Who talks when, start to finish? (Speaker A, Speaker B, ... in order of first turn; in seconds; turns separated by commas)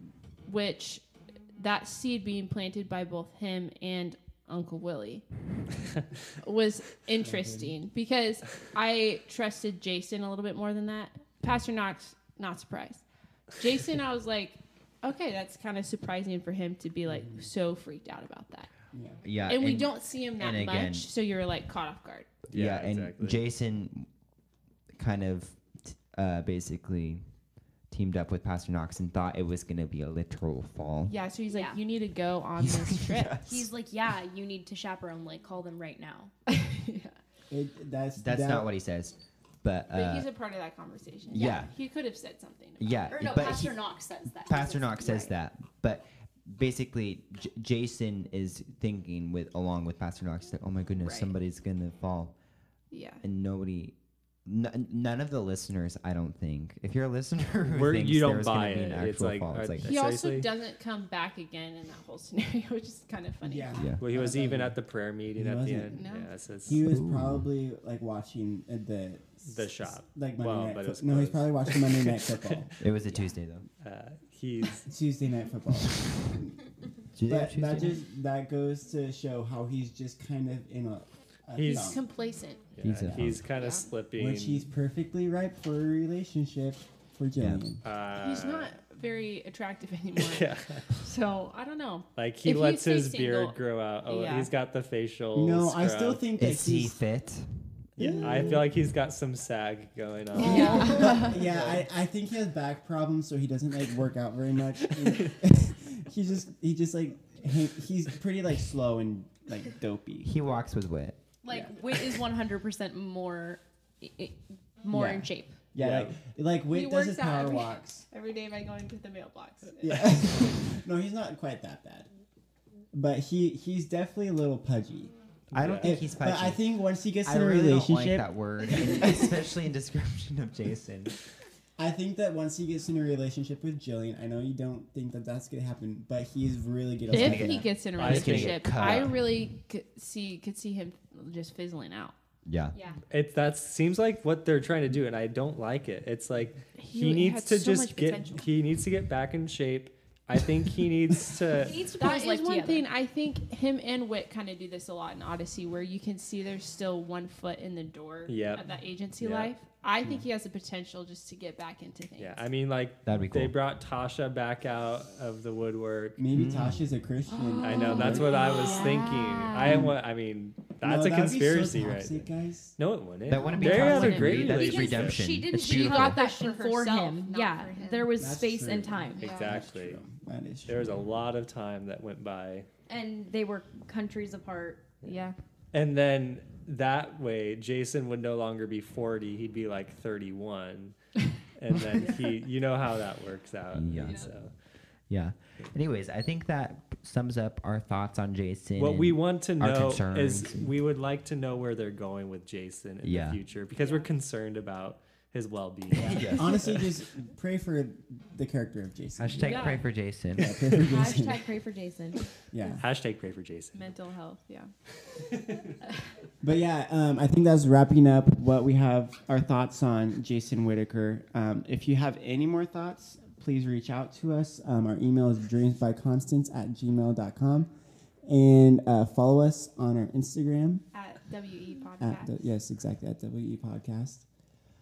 Speaker A: 0.5-5.2, Speaker A: 6.4-18.7, Speaker B: 7.2-7.7, Speaker B: 17.1-17.4, Speaker B: 18.9-19.2, Speaker C: 19.2-21.1, Speaker A: 19.4-22.3, Speaker C: 22.5-24.1, Speaker D: 22.5-23.4, Speaker C: 24.9-27.2, Speaker C: 27.9-31.1, Speaker A: 31.1-33.4, Speaker E: 31.5-31.8, Speaker C: 32.6-33.7, Speaker E: 33.4-36.3, Speaker A: 36.5-37.2, Speaker B: 37.5-38.7, Speaker C: 38.1-40.3, Speaker A: 39.9-43.4, Speaker C: 41.3-41.7, Speaker E: 41.3-41.7, Speaker C: 42.8-52.3, Speaker E: 43.1-45.3, Speaker A: 51.0-51.3, Speaker A: 52.9-53.2, Speaker C: 53.2-59.9, Speaker D: 57.7-60.5, Speaker A: 59.8-63.8, Speaker B: 63.4-64.8, Speaker C: 63.8-64.0, Speaker D: 64.0-66.8, Speaker B: 65.3-66.1, Speaker A: 65.9-66.3, Speaker B: 66.6-72.8, Speaker C: 66.7-67.5, Speaker D: 69.5-72.4, Speaker C: 72.8-73.7, Speaker D: 73.8-74.9, Speaker B: 74.8-76.5, Speaker C: 75.7-76.3, Speaker C: 77.1-78.0, Speaker B: 77.3-82.0, Speaker D: 81.5-82.0, Speaker A: 81.7-82.7, Speaker D: 82.8-84.7, Speaker C: 82.8-83.4, Speaker A: 83.5-83.9, Speaker B: 84.1-87.8, Speaker C: 87.4-87.7, Speaker D: 87.8-88.7, Speaker A: 88.1-94.5, Speaker D: 90.2-90.9, Speaker D: 92.2-96.2, Speaker B: 95.3-97.0, Speaker C: 96.3-97.5, Speaker B: 98.0-98.7, Speaker D: 98.0-101.8, Speaker B: 100.3-110.3, Speaker A: 100.4-101.3, Speaker E: 100.5-101.0, Speaker C: 110.2-111.2, Speaker E: 111.4-115.6, Speaker B: 111.5-111.7, Speaker B: 114.9-118.0, Speaker D: 115.8-116.1, Speaker A: 116.7-120.0, Speaker B: 119.8-122.1, Speaker B: 122.9-125.1, Speaker D: 125.5-125.9, Speaker C: 125.5-131.2, Speaker B: 125.8-129.4, Speaker B: 131.8-137.7, Speaker C: 137.1-139.2, Speaker A: 137.1-142.1, Speaker D: 138.0-139.2, Speaker C: 142.4-142.7, Speaker E: 142.7-143.0, Speaker D: 143.1-151.7, Speaker A: 146.8-148.5, Speaker E: 151.6-152.8, Speaker A: 152.0-162.4, Speaker D: 158.3-158.6, Speaker D: 159.2-159.5, Speaker D: 162.2-166.2, Speaker C: 163.0-163.5, Speaker B: 166.2-168.6, Speaker C: 166.3-166.8, Speaker E: 167.3-169.9, Speaker D: 167.6-175.2, Speaker A: 168.5-168.9, Speaker B: 170.8-172.8, Speaker C: 173.3-176.2, Speaker A: 173.4-174.7, Speaker B: 173.8-174.1, Speaker E: 174.4-179.3, Speaker A: 175.6-178.1, Speaker B: 178.2-180.8, Speaker A: 179.1-179.6, Speaker D: 179.2-180.0, Speaker D: 180.7-182.7, Speaker E: 182.9-185.3, Speaker A: 185.0-185.3, Speaker D: 185.7-194.5, Speaker C: 193.7-194.6, Speaker C: 195.1-200.7, Speaker D: 198.8-206.7, Speaker C: 203.0-203.4, Speaker A: 203.8-204.1, Speaker B: 205.9-211.5, Speaker C: 206.0-206.7, Speaker C: 209.2-210.7, Speaker A: 209.4-209.8, Speaker E: 210.9-212.3, Speaker B: 212.5-212.8, Speaker D: 212.8-213.9, Speaker A: 213.7-214.7, Speaker D: 215.1-215.6, Speaker B: 216.4-227.7, Speaker B: 228.2-230.8, Speaker A: 230.9-232.5, Speaker B: 232.0-234.3